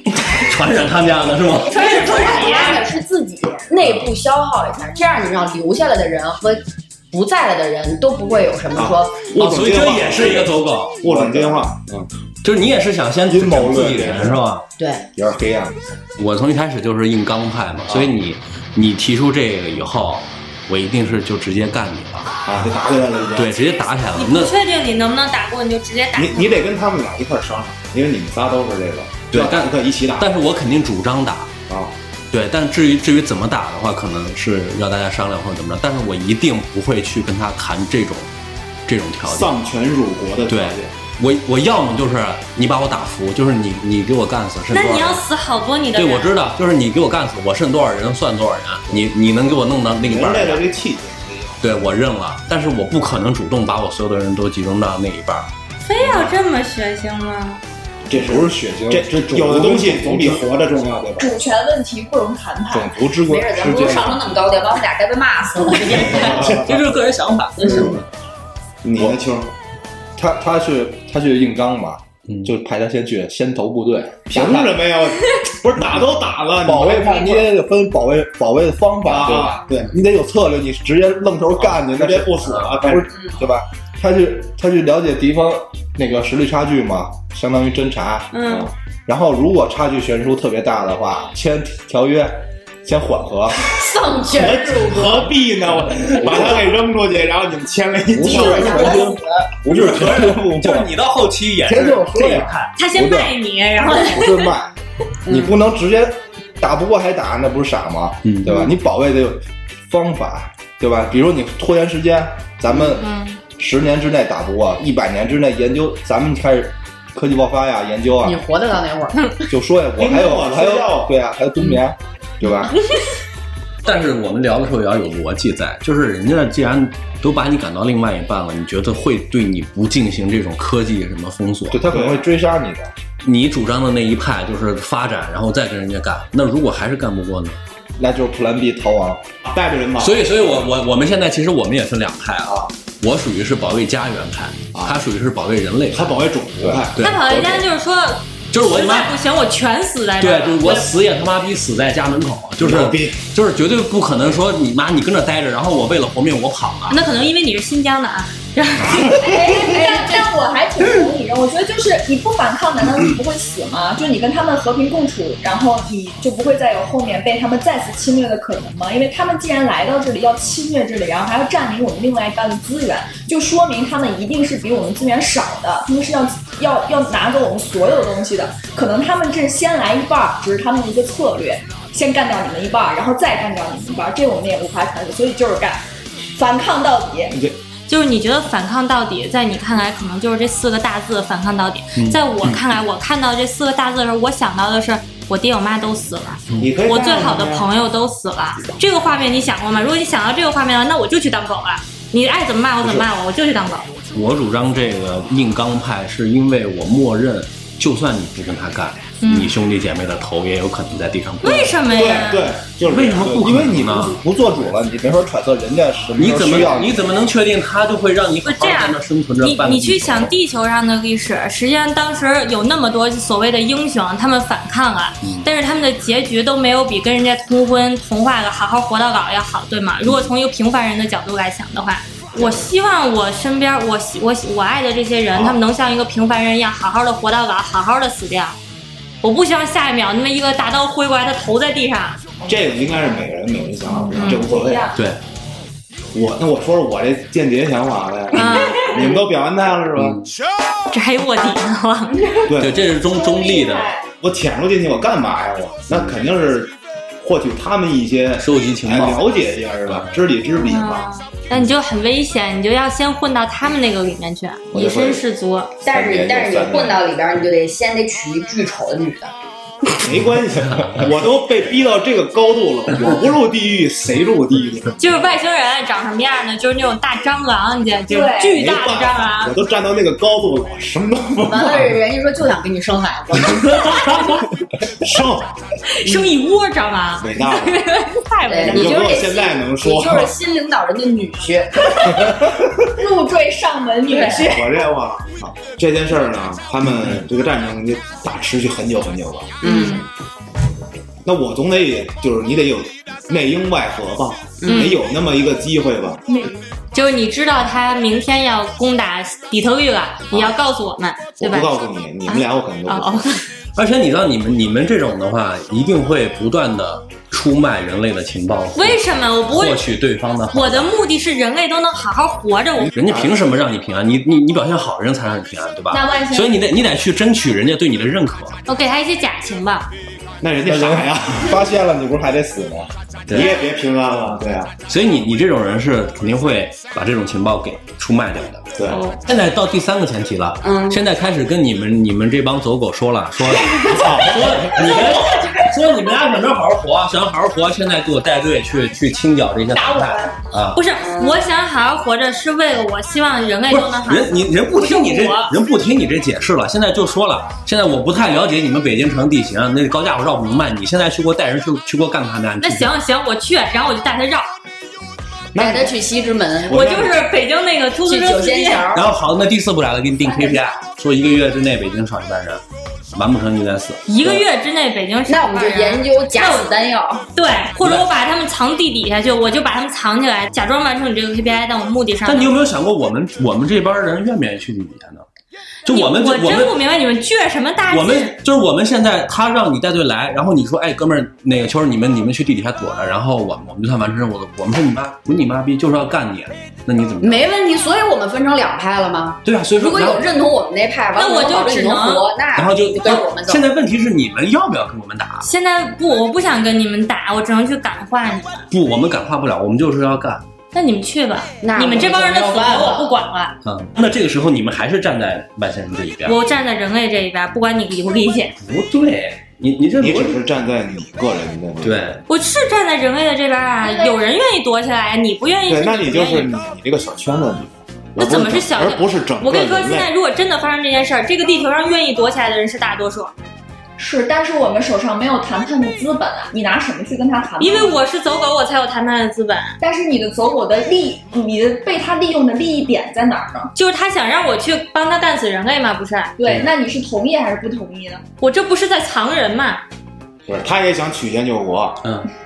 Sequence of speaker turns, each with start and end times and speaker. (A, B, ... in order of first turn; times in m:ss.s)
0:00.2-0:01.8 A
0:01.7-0:02.8 B
0:01.7-0:09.2 C
0:08.7-0:12.1 D
0:09.4-0:11.0 A
0:11.0-0:11.7 E
0:12.4-0:14.6 A
0:13.3-0:14.4 E
0:14.8-0:15.0 C
0:15.1-0:15.8 E
0:16.2-0:22.3 A
0:22.4-0:23.6 D
0:23.4-0:24.5 A
0:24.2-0:26.5 B
0:26.1-0:30.3 D
0:29.3-0:31.5 A
0:31.7-0:31.9 D
0:32.3-0:38.3 A
0:38.9-0:39.5 A
0:39.2-0:41.0 D
0:40.5-0:45.2 A
0:44.7-0:46.3 B
0:46.0-0:50.6 A
0:50.0-0:51.6 D
0:51.6-0:55.5 A
0:55.8-0:57.6 B
0:56.0-0:56.3 D
0:58.1-1:01.3 D
0:58.1-1:00.4 E
1:01.2-1:03.0 F
1:02.7-1:04.2 E
1:03.2-1:06.7 C
1:06.2-1:06.7 D
1:06.5-1:08.0 A
1:07.6-1:08.0 C
1:08.8-1:09.5 D
1:10.2-1:14.8 E
1:12.3-1:12.5 A
1:14.3-1:17.5 D
1:16.6-1:28.6 E
1:19.0-1:19.9 D
1:21.6-1:23.1 D
1:28.3-1:28.7 C
1:28.4-1:28.7 D
1:29.1-1:33.7 E
1:33.6-1:35.3 C
1:34.3-1:39.0 D
1:36.1-1:36.4 E
1:38.1-1:39.4 C
1:38.2-1:41.0 E
1:38.7-1:39.1 A
1:39.7-1:42.7 A
1:41.6-1:43.3 E
1:42.8-1:44.5 B
1:43.9-1:44.7 E
1:45.2-1:45.6 C
1:45.3-1:58.5 E
1:48.2-1:48.6 A
1:48.4-1:48.7 C
1:53.0-1:53.4 B
1:58.2-1:59.4 C
1:59.5-2:02.7 E
2:00.0-2:01.1 D
2:03.8-2:11.8 A
2:11.7-2:12.9 E
2:11.9-2:12.2 D
2:13.2-2:17.6 A
2:18.0-2:19.2 E
2:19.4-2:20.7 D
2:20.0-2:26.1 A
2:24.7-2:25.0 D
2:25.9-2:27.6 D
2:27.0-2:27.2 A
2:27.0-2:30.9 B
2:28.5-2:29.2 A
2:30.2-2:37.0 A
2:32.6-2:33.2 D
2:36.9-2:39.2 B
2:39.1-3:07.4 F
3:07.3-3:07.6 D
3:07.9-3:23.9 B
3:12.0-3:12.6 A
3:16.6-3:17.7 D
3:24.1-3:31.8 A
3:29.2-3:29.5 B
3:31.4-3:32.5 B
3:31.9-3:33.9 D
3:32.8-3:34.2 A
3:33.3-3:37.0 E
3:36.2-3:40.3 A
3:38.4-3:58.6 B
3:52.3-3:52.7 D
3:55.3-3:55.6 D
3:59.2-4:02.2 B
4:02.4-4:04.9 D
4:03.9-4:05.0 F
4:04.1-4:04.4 B
4:04.9-4:05.2 A
4:06.1-4:10.2 D
4:08.3-4:09.2 B
4:10.0-4:10.3 A
4:10.9-4:12.2 B
4:12.1-4:14.1 F
4:12.5-4:12.8 D
4:12.6-4:14.0 A
4:14.2-4:21.0 D
4:18.4-4:19.2 A
4:19.9-4:20.1 A
4:20.6-4:25.7 B
4:24.7-4:25.2 D
4:25.8-4:29.3 C
4:25.9-4:26.9 E
4:26.0-4:26.9 D
4:29.9-4:34.9 D
4:30.7-4:31.0 A
4:35.0-4:39.5 B
4:38.1-4:38.6 F
4:38.5-4:42.0 D
4:41.4-4:44.3 C
4:44.9-4:45.5 D
4:45.9-4:49.1 B
4:47.2-4:47.8 D
4:48.5-4:52.4 C
4:48.6-4:50.3 D
4:53.0-4:54.9 F
4:54.1-4:54.4 C
4:54.4-4:59.6 D
4:59.6-5:00.1 C
4:59.6-5:00.0 B
5:01.2-5:06.2 D
5:04.6-5:05.0 C
5:04.7-5:05.0 B
5:06.3-5:06.6 F
5:06.9-5:11.7 B
5:11.4-5:13.2 D
5:12.2-5:13.5 B
5:13.7-5:20.9 A
5:18.7-5:19.8 B
5:20.5-5:22.9 B
5:22.9-5:28.6 A
5:25.9-5:26.6 F
5:28.7-5:29.9 B
5:30.4-5:31.6 D
5:30.6-5:32.9 E
5:33.3-5:34.7 D
5:34.9-5:38.7 A
5:38.7-5:39.0 D
5:38.9-5:39.2 B
5:39.2-5:50.8 A
5:40.6-5:41.0 C
5:43.9-5:44.8 D
5:45.4-5:45.7 F
5:49.7-5:50.4 F
5:50.7-5:55.5 B
5:51.0-5:51.4 C
5:53.7-6:02.9 A
6:02.6-6:04.5 B
6:05.5-6:05.9 D
6:05.6-6:07.0 C
6:06.7-6:08.8 B
6:06.7-6:07.2 D
6:08.0-6:09.1 C
6:08.9-6:14.4 A
6:14.1-6:16.7 B
6:15.3-6:17.2 C
6:17.3-6:22.5 B
6:17.8-6:18.1 A
6:22.2-6:25.2 A
6:25.8-6:26.8 A
6:25.9-6:28.3 B
6:27.9-6:37.5 A
6:37.2-6:43.7 C
6:39.4-6:40.3 A
6:41.1-6:42.2 B
6:42.5-6:45.5 A
6:45.4-6:48.6 B
6:48.7-6:50.4 A
6:50.7-6:53.6 B
6:51.6-6:53.1 C
6:53.6-6:56.4 A
6:56.2-6:58.5 B
6:58.6-7:00.4 A
7:00.0-7:02.2 D
7:01.8-7:02.2 A
7:02.3-7:06.5 B
7:03.8-7:04.1 F
7:05.7-7:10.1 D
7:08.2-7:13.3 B
7:14.0-7:18.0 F
7:17.6-7:19.8 B
7:19.8-7:23.7 F
7:23.7-7:26.4 B
7:26.4-7:28.2 F
7:28.4-7:29.8 B
7:30.5-7:32.0 D
7:32.0-7:32.3 A